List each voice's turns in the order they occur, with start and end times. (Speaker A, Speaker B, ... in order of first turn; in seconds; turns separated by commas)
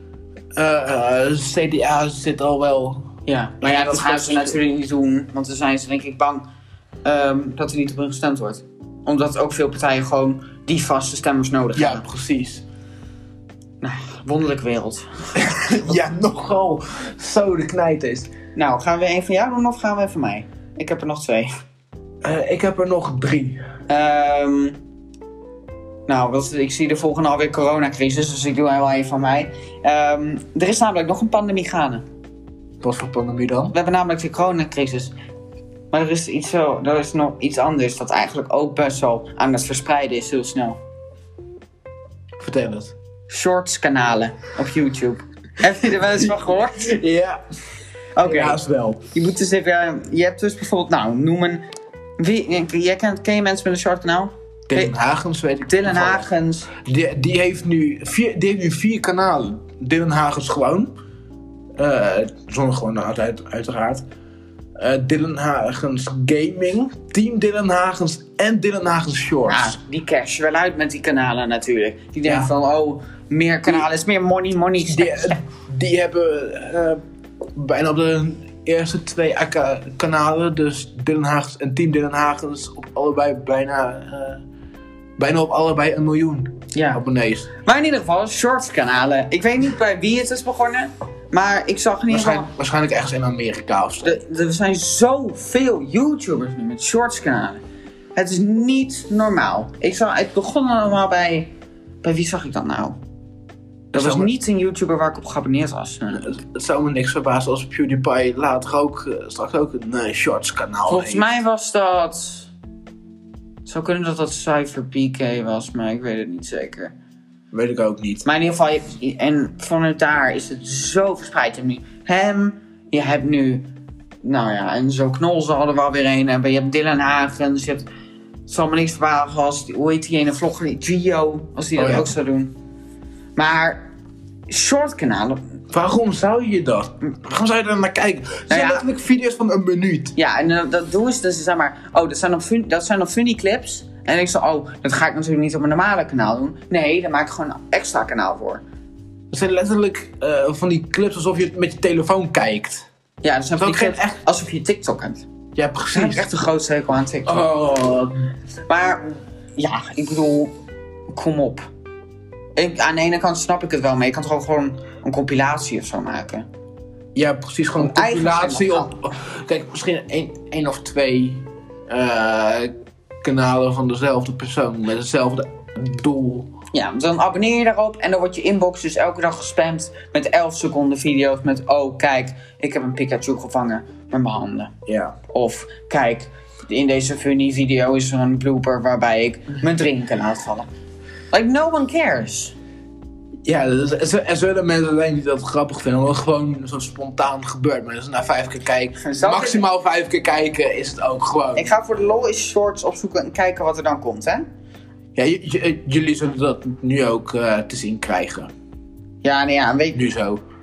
Speaker A: 0.5-3.1, Speaker B: 3.2-6.5, Speaker A: 3.6-4.6, Speaker B: 7.0-12.0, Speaker A: 11.8-12.6, Speaker B: 13.8-16.0, Speaker A: 15.4-18.3, Speaker B: 18.5-21.5, Speaker A: 22.2-23.6, Speaker B: 23.9-24.8, Speaker B: 26.1-32.0, Speaker A: 32.8-33.7, Speaker B: 33.7-35.1, Speaker B: 35.9-40.8, Speaker A: 42.4-42.9, Speaker B: 43.3-46.9, Speaker A: 46.0-47.4, Speaker B: 48.1-48.6, Speaker A: 48.2-49.0, Speaker B: 49.1-51.6, Speaker B: 52.2-54.9, Speaker A: 54.7-60.9, Speaker B: 55.7-56.7, Speaker A: 61.8-64.0, Speaker A: 64.8-69.8, Speaker B: 69.5-75.4, Speaker A: 72.2-72.5, Speaker A: 74.8-77.0, Speaker A: 77.5-84.4, Speaker A: 85.2-87.5, Speaker B: 86.7-87.0, Speaker B: 87.6-92.5, Speaker A: 92.1-94.2, Speaker B: 94.0-97.6, Speaker B: 98.1-101.5, Speaker B: 102.0-103.0, Speaker B: 103.9-106.4, Speaker A: 103.9-104.3, Speaker A: 106.1-111.4, Speaker B: 110.9-112.5, Speaker B: 113.6-116.9, Speaker A: 117.5-118.2, Speaker B: 118.2-123.7, Speaker B: 124.2-127.8, Speaker B: 128.5-132.5, Speaker A: 131.8-132.1, Speaker B: 133.3-133.8, Speaker B: 134.5-135.6, Speaker A: 135.7-140.1, Speaker B: 138.5-138.8, Speaker B: 140.2-148.6, Speaker A: 149.3-152.9, Speaker B: 153.2-155.2, Speaker A: 153.6-154.2, Speaker A: 155.6-156.3, Speaker B: 155.9-157.4, Speaker A: 157.2-158.3, Speaker B: 158.7-160.5, Speaker B: 161.1-161.7, Speaker B: 162.6-166.4, Speaker A: 167.1-172.7, Speaker B: 167.8-168.9, Speaker A: 173.2-176.5, Speaker B: 176.7-184.7, Speaker A: 184.8-185.2, Speaker B: 185.3-190.7, Speaker B: 191.3-192.5, Speaker A: 193.4-201.7, Speaker B: 199.0-199.6, Speaker B: 201.5-204.4, Speaker A: 205.2-208.5, Speaker B: 209.2-210.1, Speaker A: 209.9-210.4